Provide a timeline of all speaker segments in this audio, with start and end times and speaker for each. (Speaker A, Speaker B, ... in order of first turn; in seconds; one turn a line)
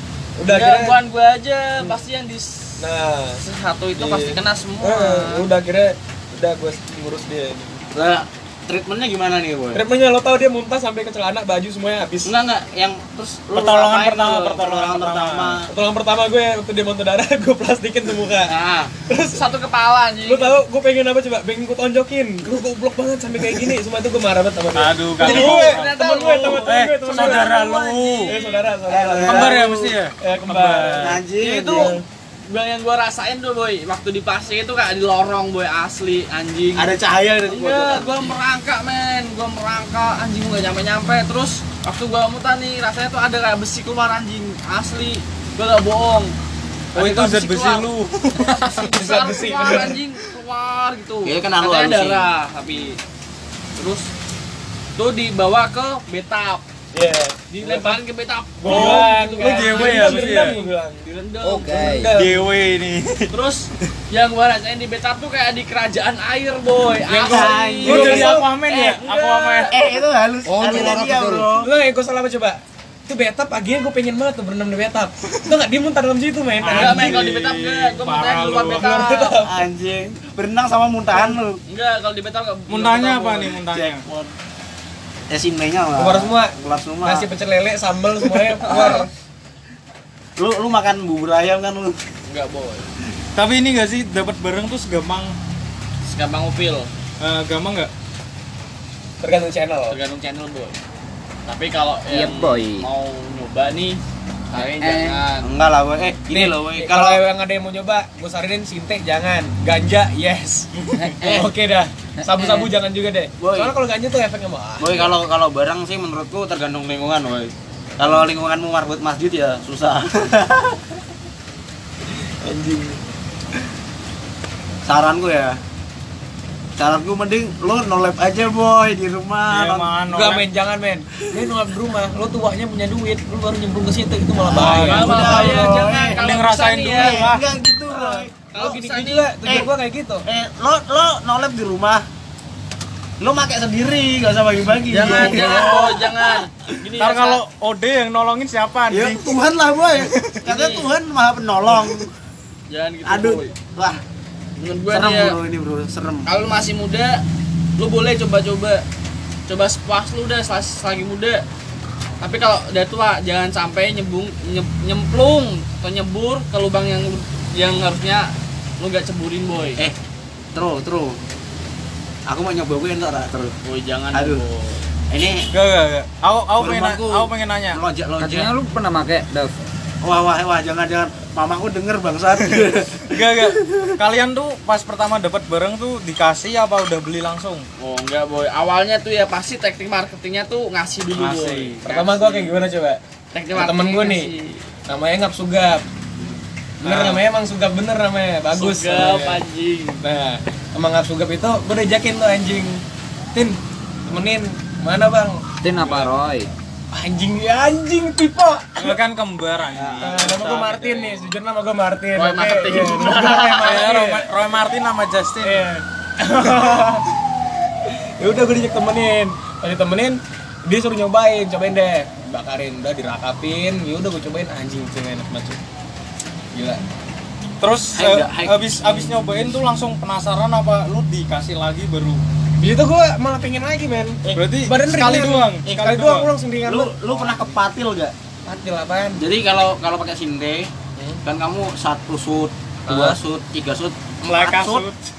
Speaker A: 0.4-1.0
Speaker B: 0.5-2.8
Speaker A: 2.8-3.4
Speaker B: 3.4-5.5
Speaker A: 4.0-7.8
Speaker C: 7.9-9.8
Speaker A: 9.7-12.3
Speaker C: 12.2-15.7
Speaker D: 13.5-15.6
Speaker A: 15.7-18.5
Speaker C: 18.5-18.9
Speaker A: 19.1-19.4
Speaker B: 19.3-20.6
Speaker A: 20.2-27.6
Speaker D: 24.7-26.0
Speaker B: 25.2-28.7
Speaker D: 26.6-28.4
Speaker A: 28.2-29.6
Speaker C: 28.9-29.9
Speaker D: 29.2-31.2
Speaker A: 30.2-31.2
Speaker C: 31.0-31.9
Speaker B: 31.4-31.9
Speaker B: 32.5-36.9
Speaker C: 36.8-38.3
Speaker B: 37.4-46.3
Speaker B: 46.9-47.9
Speaker D: 46.9-48.7
Speaker B: 48.6-53.0
Speaker A: 48.9-50.0
Speaker C: 51.2-52.3
Speaker B: 53.8-54.1
Speaker B: 55.0-56.6
Speaker A: 56.9-58.0
Speaker B: 57.5-61.7
Speaker A: 58.6-61.0
Speaker D: 58.6-60.6
Speaker E: 61.4-62.1
Speaker A: 61.7-62.5
Speaker D: 62.1-63.3
Speaker B: 63.3-69.7
Speaker C: 67.1-68.3
Speaker D: 67.3-69.7
Speaker A: 67.8-68.5
Speaker C: 69.7-71.7
Speaker E: 70.5-71.5
Speaker A: 71.6-77.2
Speaker D: 76.6-78.9
Speaker B: 76.7-79.4
Speaker A: 78.7-79.6
Speaker C: 79.4-81.6
Speaker B: 81.7-84.3
Speaker D: 82.7-84.0
Speaker C: 83.7-84.0
Speaker C: 85.3-87.3
Speaker A: 86.0-89.1
Speaker C: 88.6-89.1
Speaker C: 90.4-92.0
Speaker B: 92.3-92.9
Speaker D: 93.3-95.3
Speaker B: 96.0-96.9
Speaker D: 97.2-97.9
Speaker A: 99.2-100.0
Speaker B: 99.9-100.8
Speaker B: 101.5-104.0
Speaker E: 102.1-102.8
Speaker B: 104.5-105.5
Speaker E: 104.5-105.2
Speaker C: 105.4-107.2
Speaker A: 106.3-110.7
Speaker E: 110.9-111.5
Speaker C: 111.2-111.5
Speaker A: 111.2-115.1
Speaker E: 112.2-112.7
Speaker C: 113.4-113.7
Speaker C: 114.8-120.8
Speaker C: 122.4-123.0
Speaker C: 124.8-125.6
Speaker C: 126.8-129.9
Speaker D: 129.5-130.4
Speaker A: 130.1-135.7
Speaker C: 134.4-136.2
Speaker D: 134.5-135.5
Speaker B: 134.8-137.3
Speaker D: 136.2-137.4
Speaker C: 136.9-138.7
Speaker A: 137.9-140.2
Speaker B: 138.5-139.3
Speaker C: 139.4-139.7
Speaker C: 140.2-142.0
Speaker C: 143.2-146.5
Speaker D: 144.9-146.0
Speaker B: 144.9-147.4
Speaker D: 147.0-149.4
Speaker C: 148.9-152.1
Speaker D: 150.0-150.4
Speaker B: 150.4-150.9
Speaker B: 152.7-153.5
Speaker C: 153.0-154.0
Speaker B: 154.6-155.4
Speaker C: 154.9-156.3
Speaker B: 156.2-157.2
Speaker B: 157.8-158.8
Speaker B: 159.5-161.4
Speaker B: 162.2-169.8
Speaker C: 170.5-171.2
Speaker C: 172.3-173.5
Speaker B: 173.6-174.8
Speaker C: 174.1-174.4
Speaker C: 175.1-175.5
Speaker D: 175.5-177.8
Speaker C: 176.6-178.5
Speaker E: 178.2-179.7
Speaker C: 180.0-183.9
Speaker D: 183.0-187.7
Speaker B: 187.8-192.6
Speaker D: 191.2-191.8
Speaker A: 191.8-193.0
Speaker B: 193.3-194.6
Speaker A: 193.5-194.3
Speaker A: 194.9-195.8
Speaker A: 196.8-199.4
Speaker B: 196.8-197.2
Speaker B: 198.5-200.0
Speaker A: 200.0-202.8
Speaker A: 203.3-205.4
Speaker E: 205.6-206.5
Speaker D: 205.8-206.1
Speaker A: 206.9-209.0
Speaker D: 208.8-211.3
Speaker C: 209.8-210.1
Speaker A: 210.0-214.3
Speaker B: 212.2-213.8
Speaker D: 212.9-215.8
Speaker A: 215.4-217.0
Speaker A: 218.2-225.6
Speaker A: 226.5-226.8
Speaker D: 227.6-232.2
Speaker C: 227.9-228.9
Speaker A: 232.6-237.3
Speaker C: 234.2-234.5
Speaker D: 234.3-236.3
Speaker C: 236.6-238.1
Speaker A: 238.4-239.2
Speaker C: 239.2-240.7
Speaker A: 240.9-241.2
Speaker C: 241.2-244.9
Speaker A: 242.9-243.2
Speaker D: 244.2-245.0